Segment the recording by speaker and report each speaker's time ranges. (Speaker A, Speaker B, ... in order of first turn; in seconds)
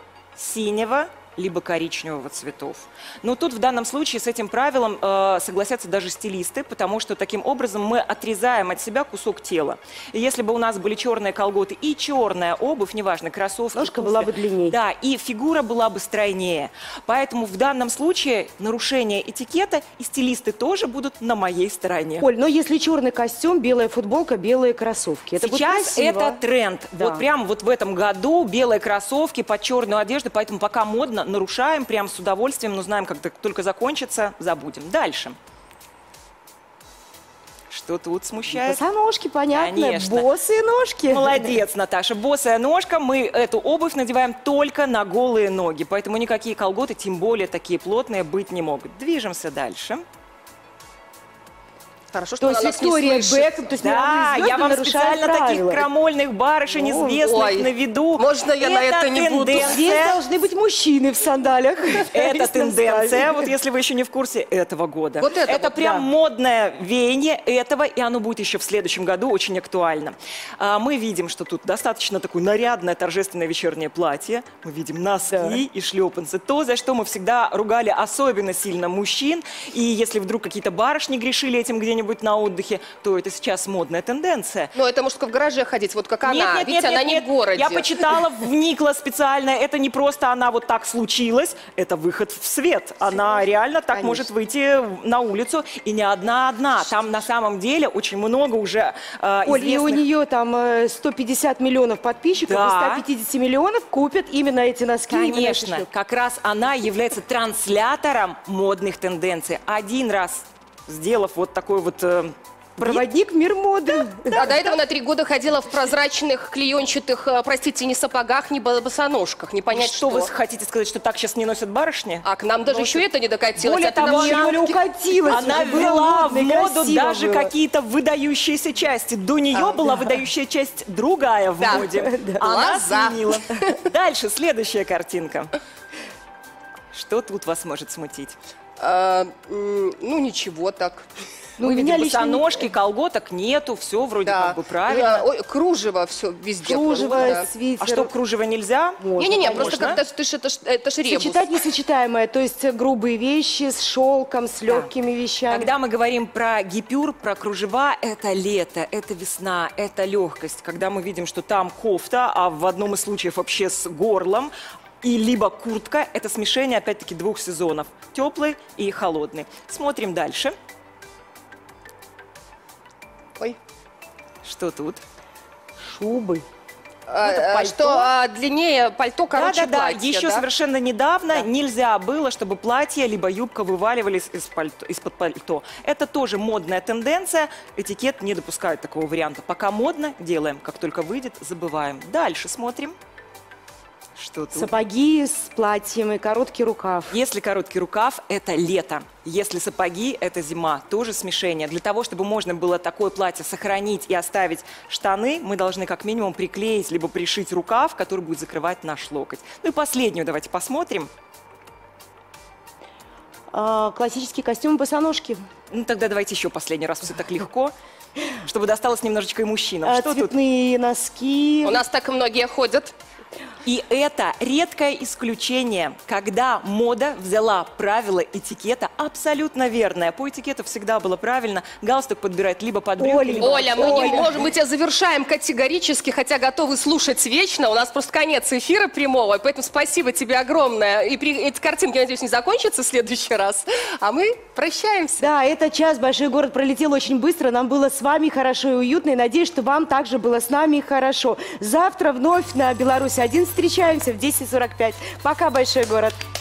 Speaker A: 0.4-22.3, 25.4-35.4, 37.7-38.8, 39.5-40.3, 41.1-50.0, 53.7-60.2, 62.1-84.7, 86.2-100.1, 102.4-103.1, 105.1-113.1, 114.3-114.8, 119.7-122.3, 123.7-135.5, 136.9-138.4, 141.7-145.3, 147.8-149.1, 149.7-150.0, 155.5-170.5, 174.4-175.0, 179.3-192.9, 194.2-194.8, 197.1-211.1, 215.7-217.7, 218.4-220.3, 223.7-233.7
Speaker B: 13.7-14.8, 22.2-26.4, 27.0-27.2, 38.5-41.5, 52.4-55.9, 56.7-57.3, 59.6-63.5, 65.7-66.1, 75.3-75.6, 93.3-94.3, 99.5-105.9, 112.8-114.5, 122.7-123.0, 123.6-127.5, 131.7-132.5, 141.6-142.7, 146.6-148.1, 149.0-150.0, 151.0-155.7, 175.8-176.4, 177.2-178.1, 194.5-197.2, 213.5-215.5, 219.8-221.8, 233.0-234.5, 245.2-256.2
Speaker C: 52.1-53.7, 57.3-59.8, 65.2-65.7, 84.8-88.3, 114.3-120.3, 122.2-124.8, 129.5-129.9, 131.6-133.7, 138.8-141.1, 144.2-147.5, 149.2-151.6, 177.1-180.5, 221.6-222.9, 233.4-245.3